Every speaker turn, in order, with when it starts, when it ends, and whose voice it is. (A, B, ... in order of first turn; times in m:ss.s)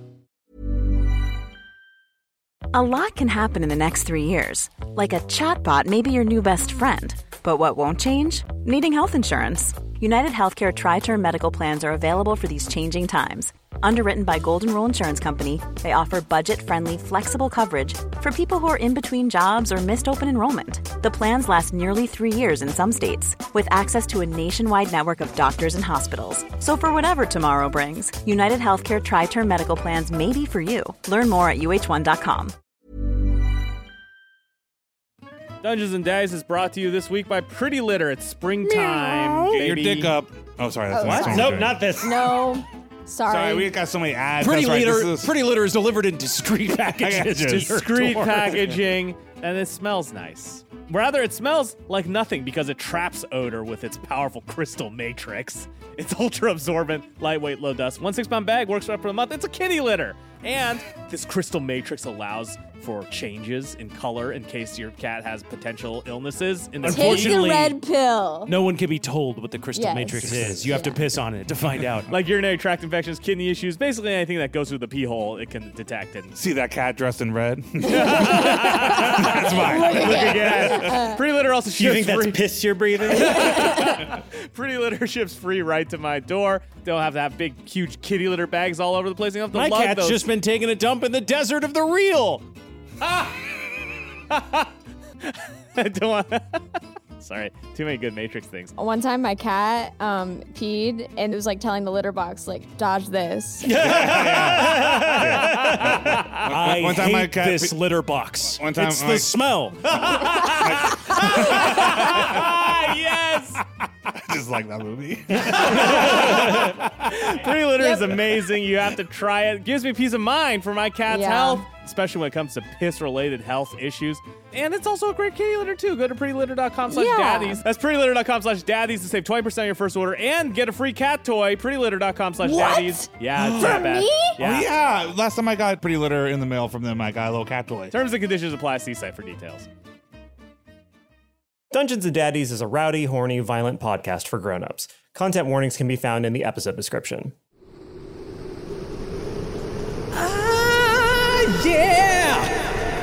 0:02.7-0:32.6 A
0:35.6-0:40.2 B
0:39.3-0:41.8 C
0:40.9-0:43.8 D
0:41.0-0:41.4 B
0:41.3-0:42.4 E
0:43.2-0:45.3 C
0:44.4-0:48.8 F
0:47.0-0:47.7 C
0:47.5-1:07.4 B
1:06.8-1:07.8 F
1:06.8-1:08.5 D
1:08.5-1:12.1 F
1:09.7-1:11.0 D
1:10.3-1:10.6 C
1:12.1-1:16.4 B
1:16.4-1:21.1 C
1:17.9-1:22.4 B
1:19.1-1:21.2 D
1:21.8-1:23.5 E
1:23.1-1:30.2 B
1:23.3-1:23.8 D
1:29.5-1:32.4 F
1:34.3-1:34.7 B
1:35.2-1:36.6 B
1:37.2-1:38.7 B
1:38.8-1:43.8 D
1:43.6-1:50.6 F
1:43.7-1:47.8 C
1:43.9-1:46.4 B
1:48.6-1:49.3 C
1:50.0-1:53.6 B
1:50.1-1:52.5 C
1:54.3-1:57.2 C
1:55.5-2:14.7 B
1:57.8-1:58.1 D
2:01.1-2:01.6 D
2:06.9-2:07.6 D
2:12.4-2:14.4 D
2:13.4-2:17.9 C
2:17.9-2:19.7 B
2:21.7-2:27.3 E
2:30.1-2:32.7 B